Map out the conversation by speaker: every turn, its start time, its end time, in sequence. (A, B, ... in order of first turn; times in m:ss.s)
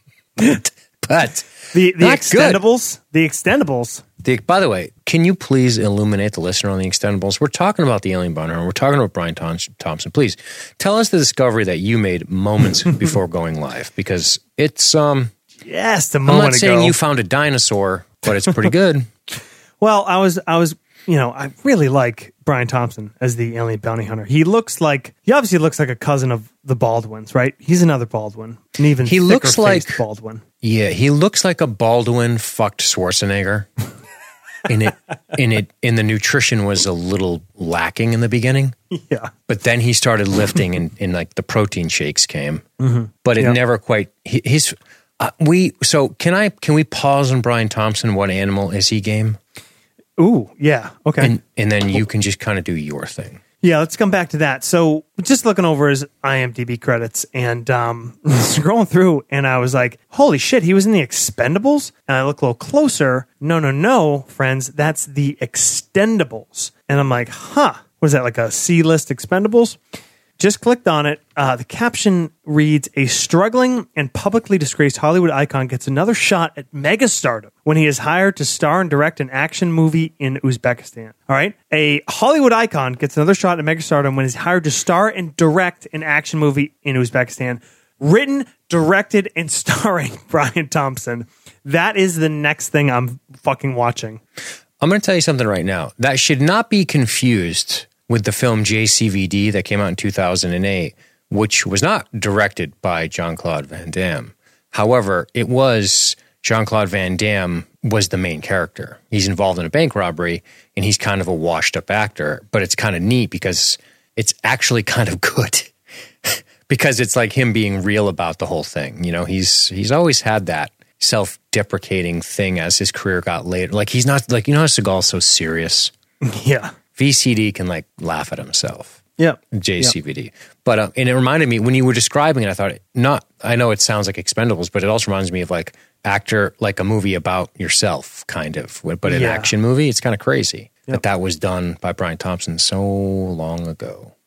0:01.0-0:02.6 A
0:01.7-0:04.0 B
0:04.2-0:15.3 A
0:15.6-0:17.0 B
0:16.2-0:19.1 A
0:19.8-0:30.4 B
0:29.0-0:30.0 A
0:30.6-0:33.7 A
0:34.6-0:38.8 A
0:38.9-0:39.3 B
0:39.5-0:42.6 A
0:42.8-0:43.6 B
0:43.2-0:49.4 A
0:50.2-0:51.3 B
0:51.2-0:53.4 A
0:53.6-1:09.8 B
1:10.4-1:34.2 B
1:34.8-1:55.7 A
1:56.2-2:05.9 A
2:06.2-2:06.7 B
2:06.9-2:24.1 A
2:09.2-2:09.9 B
2:19.0-2:19.5 B